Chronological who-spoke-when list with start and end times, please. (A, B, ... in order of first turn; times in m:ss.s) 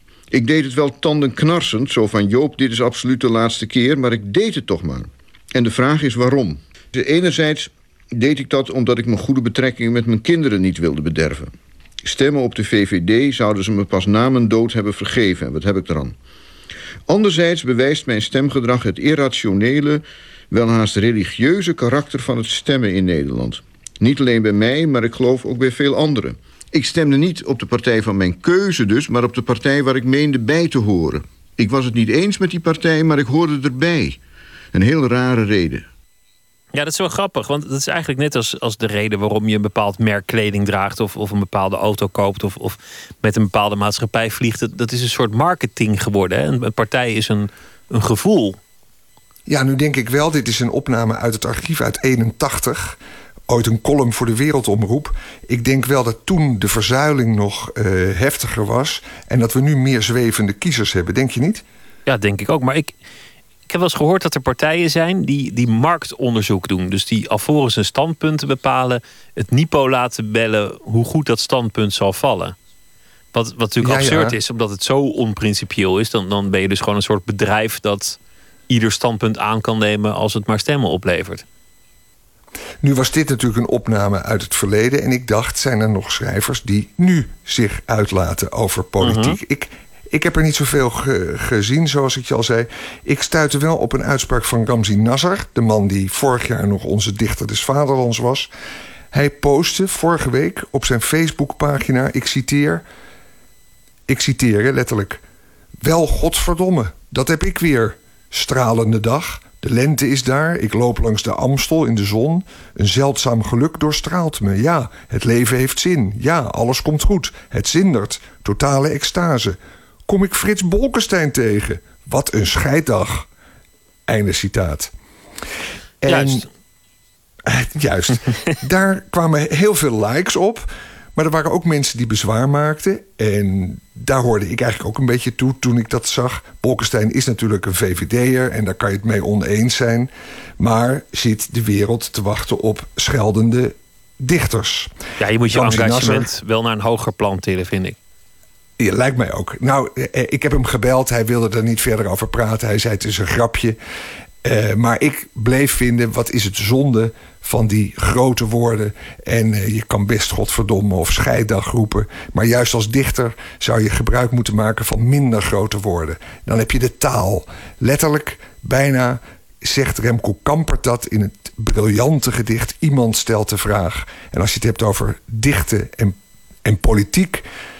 0:00.3-0:16.2 A
0:17.1-0:34.2 A
0:34.7-0:35.9 A
0:36.7-0:48.6 B
0:49.5-0:53.0 C
0:53.5-1:01.6 C
1:02.1-1:02.9 B
1:03.7-1:12.6 B
1:13.3-1:18.2 B
1:13.8-1:14.4 C
1:18.7-1:21.4 B
1:22.8-1:38.5 C
1:29.0-1:29.4 B
1:39.1-1:42.8 C
1:44.1-1:45.2 C
1:45.8-1:59.6 C
2:00.1-2:03.3 C
2:04.1-2:04.9 C
2:06.0-2:06.4 C
2:06.1-2:06.5 B
2:07.5-2:24.9 C
2:25.2-2:28.0 B
2:25.5-2:26.3 C
2:28.8-2:33.8 C
2:34.4-2:57.4 C